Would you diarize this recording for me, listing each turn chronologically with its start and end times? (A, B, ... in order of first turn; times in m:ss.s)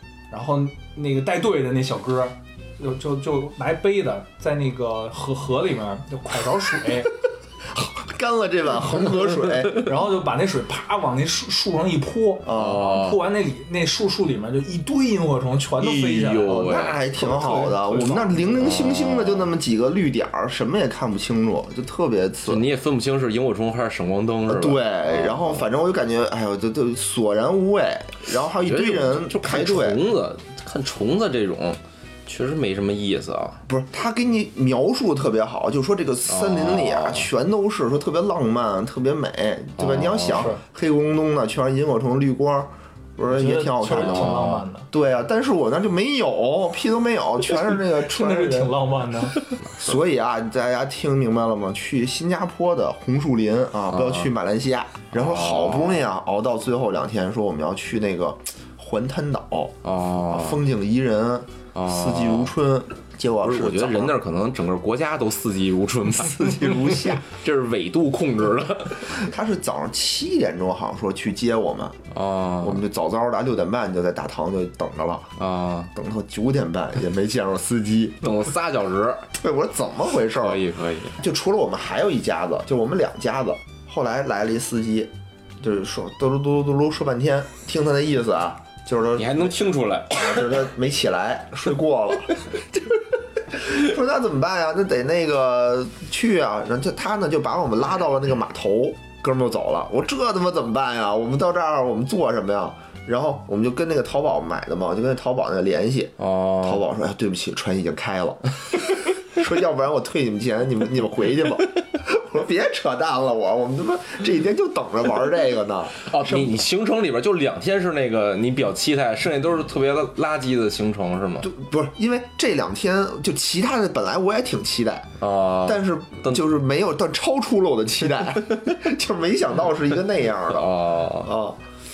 0:00.3-0:07.1 A
0:07.7-0:09.9 B
0:09.8-0:18.7 A
0:12.4-0:12.9 B
0:12.5-0:13.2 C
0:15.8-0:17.0 C
0:16.5-0:22.7 B
0:18.6-0:19.5 C
0:22.5-0:25.6 C
0:24.5-0:30.0 B
0:28.6-0:33.6 C
0:33.7-0:48.8 B
0:36.3-0:37.3 C
0:39.8-0:40.5 C
0:40.3-0:40.6 A
0:43.3-0:44.9 A
0:43.9-0:44.6 C
0:47.8-0:49.4 A
0:49.7-1:04.2 B
0:53.9-0:54.3 C
0:55.1-0:56.0 C
0:59.8-1:00.6 C
1:01.7-1:02.5 C
1:03.4-1:09.1 C
1:06.2-1:07.3 B
1:09.0-1:12.0 B
1:12.1-1:12.8 C
1:12.6-1:15.3 B
1:15.4-1:15.9 C
1:15.9-1:18.2 B
1:18.2-1:19.3 C
1:19.3-1:20.6 B
1:20.3-1:21.2 C
1:21.2-1:29.5 B
1:29.2-1:30.5 C
1:30.1-1:56.6 B
1:46.2-1:46.8 C
1:56.1-2:01.5 C
2:01.4-2:05.1 B
2:05.2-2:06.4 C
2:05.6-2:11.6 B
2:10.5-2:11.3 C